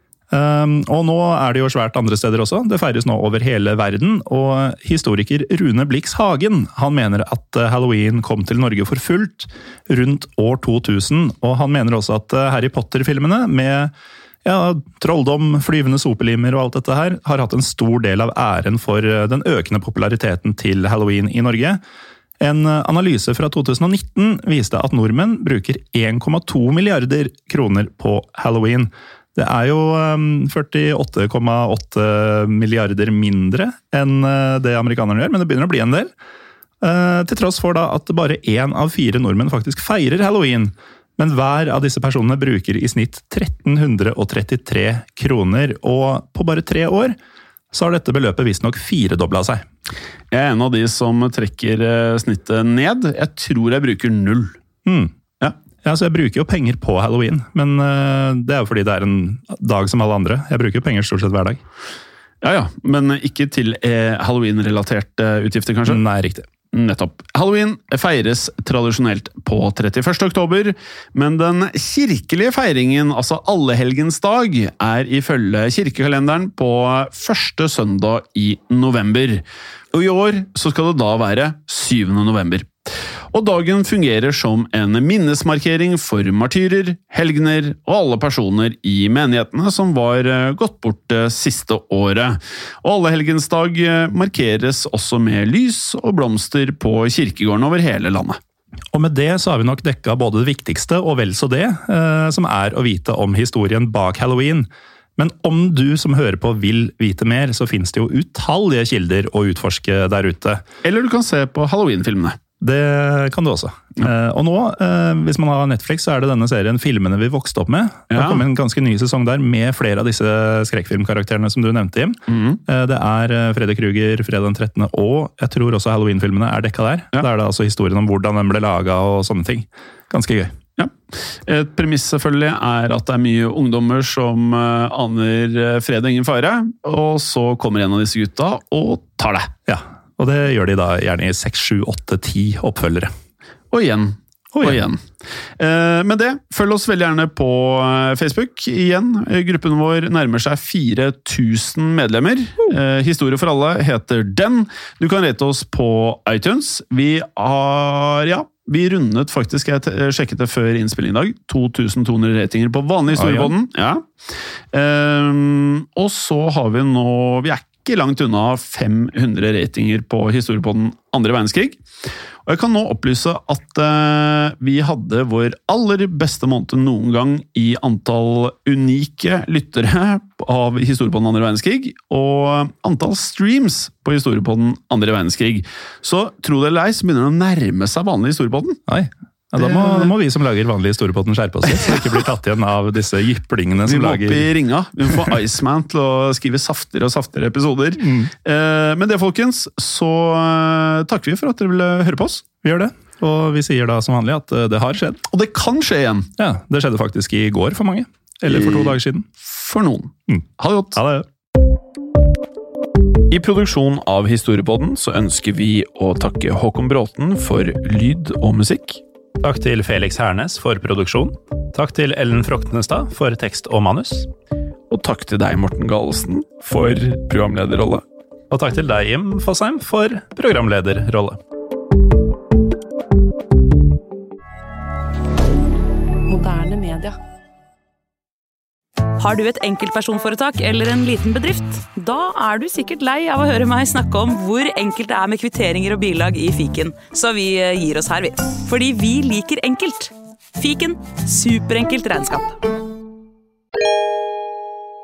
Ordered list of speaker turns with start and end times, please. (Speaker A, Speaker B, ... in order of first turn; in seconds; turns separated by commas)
Speaker A: 0.3-13.9, Speaker A: 14.4-21.8, Speaker A: 22.4-36.1, Speaker A: 36.8-47.1, Speaker A: 47.7-49.6, Speaker B: 50.3-54.6, Speaker A: 54.9-55.1, Speaker A: 55.8-61.6, Speaker B: 62.4-66.0, Speaker A: 65.9-66.5, Speaker B: 66.7-82.7, Speaker B: 83.3-98.4, Speaker A: 98.9-110.6, Speaker B: 110.8-112.4, Speaker A: 112.6-130.5, Speaker B: 118.1-118.4, Speaker B: 122.3-122.6, Speaker B: 130.8-139.5, Speaker A: 139.7-143.1, Speaker B: 143.7-145.1, Speaker A: 144.5-144.8, Speaker B: 145.6-164.1, Speaker A: 163.1-163.5, Speaker B: 164.7-171.8, Speaker B: 172.4-188.8, Speaker A: 188.9-194.5, Speaker B: 189.6-190.1, Speaker B: 191.7-192.0, Speaker B: 193.9-202.4, Speaker A: 198.0-198.3, Speaker A: 202.6-205.2, Speaker B: 205.3-206.3, Speaker A: 206.4-209.3, Speaker B: 208.5-211.0, Speaker A: 210.9-211.3, Speaker B: 213.3-219.0, Speaker A: 219.4-224.3, Speaker B: 224.9-228.0, Speaker A: 228.5-231.4, Speaker C: 236.3-237.2, Speaker C: 239.2-252.6